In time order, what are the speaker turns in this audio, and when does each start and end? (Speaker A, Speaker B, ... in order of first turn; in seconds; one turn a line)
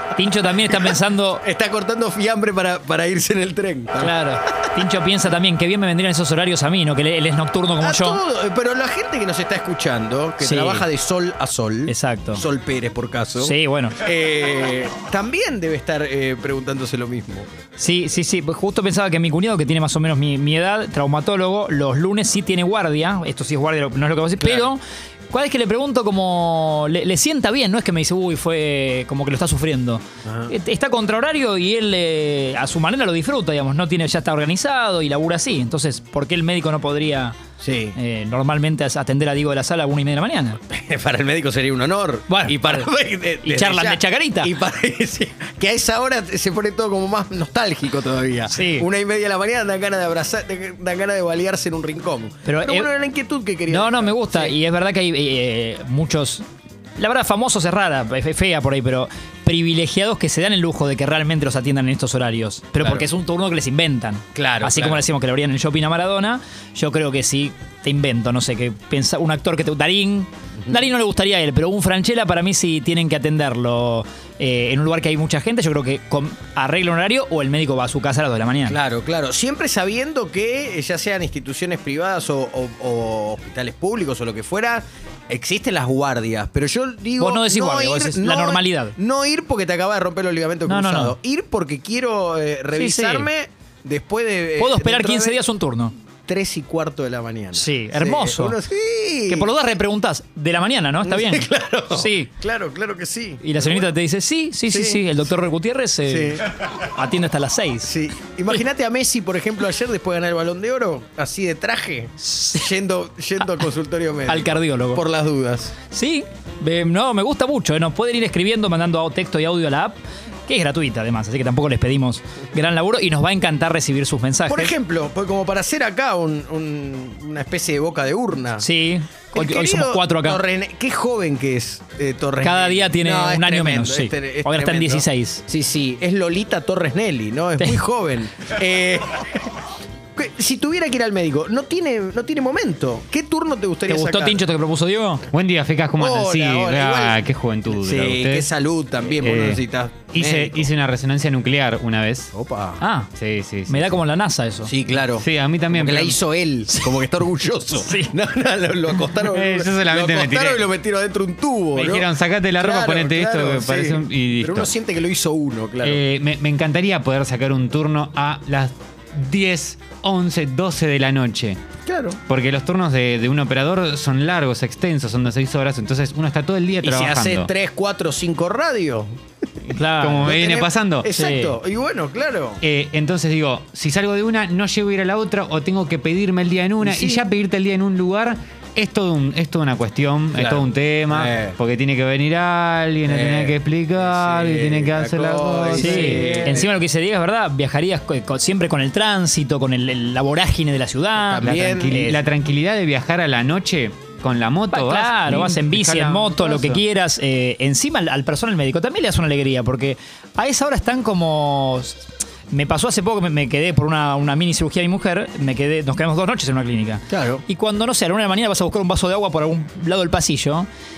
Speaker A: 0.2-1.4
Speaker B: 0.7-4.2
Speaker A: 4.0-8.2
Speaker B: 7.8-17.5
Speaker A: 10.4-10.8
Speaker A: 11.9-12.4
Speaker A: 13.4-14.0
Speaker A: 17.8-37.4
Speaker B: 24.4-24.7
Speaker B: 30.2-30.5
Speaker B: 37.6-38.0
Speaker A: 38.0-40.6
Speaker B: 40.7-54.6
Speaker A: 42.3-42.9
Speaker A: 43.4-44.5
Speaker A: 48.5-48.9
Speaker A: 52.5-52.9
Speaker A: 53.7-56.4
Speaker A: 57.0-78.8
Speaker B: 62.8-63.1
Speaker B: 64.3-65.0
Speaker B: 78.7-95.4
Speaker A: 87.2-89.0
Speaker A: 90.7-91.2
Speaker A: 92.7-93.3
Speaker A: 94.6-95.9
Speaker B: 96.3-99.5
Speaker A: 97.5-98.5
Speaker A: 99.3-102.3
Speaker B: 101.0-103.9
Speaker A: 103.4-106.4
Speaker B: 104.7-105.0
Speaker B: 106.1-106.5
Speaker A: 106.9-107.9
Speaker B: 107.8-115.7
Speaker A: 112.3-112.6
Speaker A: 114.3-115.0
Speaker A: 115.9-124.7
Speaker B: 124.5-128.7
Speaker A: 128.6-130.4
Speaker B: 129.3-139.5
Speaker A: 132.4-135.4
Speaker B: 140.2-144.4
Speaker A: 143.9-145.3
Speaker C: 145.3-148.5
Speaker B: 146.0-150.7
Speaker C: 149.1-149.6
Speaker C: 150.1-152.3
Speaker B: 152.3-152.8
Speaker A: 152.8-153.1
Speaker C: 153.2-153.9
Speaker A: 153.7-154.7
Speaker B: 154.7-166.0
Speaker C: 155.2-156.2
Speaker C: 159.2-160.7
Speaker C: 161.7-164.7
Speaker C: 165.8-171.6
Speaker B: 171.9-172.2
Speaker C: 172.3-177.5
Speaker B: 176.8-179.1
Speaker A: 179.7-180.3
Speaker C: 180.0-181.1
Speaker B: 180.2-182.6
Speaker A: 181.2-181.6
Speaker C: 182.6-196.5
Speaker B: 186.8-187.2
Speaker B: 190.3-191.6
Speaker B: 193.1-196.7
Speaker A: 195.8-202.2
Speaker B: 201.2-202.1
Speaker C: 201.4-206.8
Speaker A: 204.7-220.7
Speaker B: 217.1-217.4